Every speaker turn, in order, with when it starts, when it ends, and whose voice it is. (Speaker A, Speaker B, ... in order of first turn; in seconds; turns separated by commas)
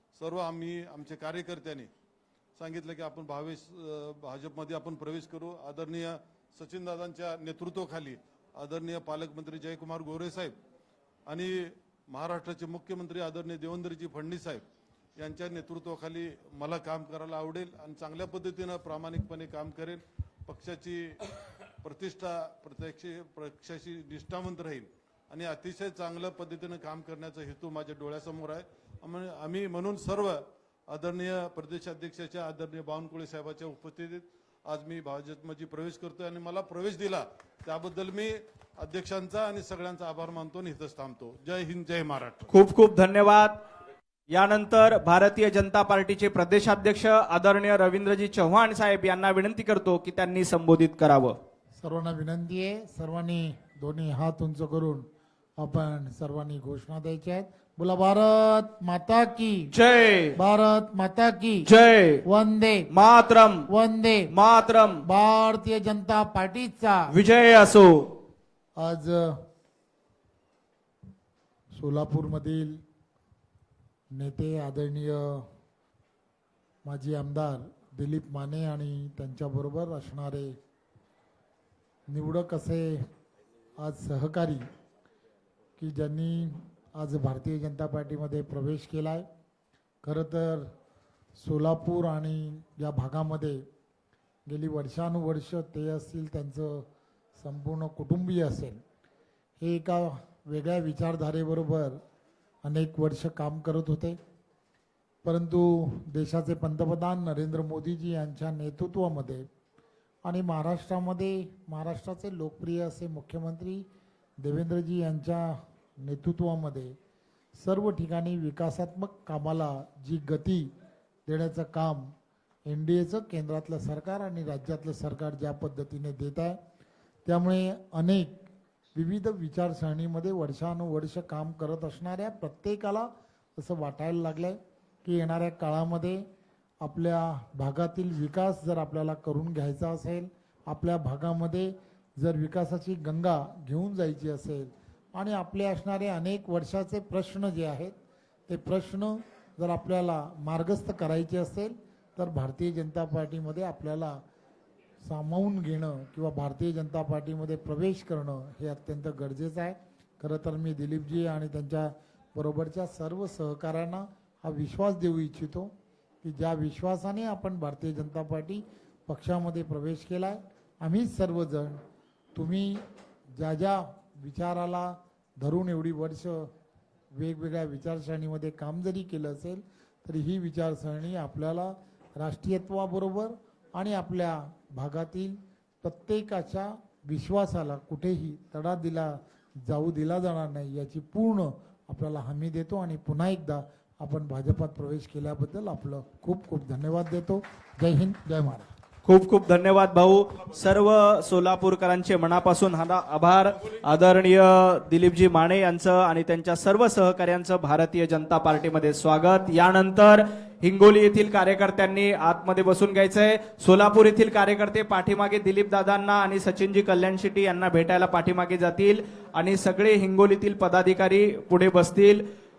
Speaker A: 0.1-1.9, Speaker A: 2.6-10.6, Speaker A: 11.3-14.6, Speaker A: 15.2-21.2, Speaker A: 21.8-42.5, Speaker B: 42.5-43.6, Speaker B: 44.3-51.4, Speaker C: 51.8-59.7, Speaker B: 59.7-60.4, Speaker C: 60.4-61.7, Speaker B: 61.7-62.2, Speaker C: 62.2-62.9, Speaker B: 62.9-63.7, Speaker C: 63.7-64.3, Speaker B: 64.3-65.0, Speaker C: 65.0-67.1, Speaker B: 67.1-68.1, Speaker C: 68.8-69.4, Speaker C: 71.7-72.8, Speaker C: 74.1-75.5, Speaker C: 76.8-80.6, Speaker C: 82.1-83.1, Speaker C: 83.8-84.7, Speaker C: 85.8-89.3, Speaker C: 90.0-90.7, Speaker C: 91.4-93.7, Speaker C: 94.5-98.8, Speaker C: 99.6-102.0, Speaker C: 102.6-104.2, Speaker C: 105.2-109.5, Speaker C: 110.2-113.9, Speaker C: 114.4-117.0, Speaker C: 117.6-120.7, Speaker C: 121.3-122.1, Speaker C: 122.7-126.6, Speaker C: 127.2-136.3, Speaker C: 136.8-148.0, Speaker C: 148.5-154.2, Speaker C: 155.0-171.8, Speaker C: 172.3-176.5, Speaker C: 177.1-198.7, Speaker B: 199.1-222.2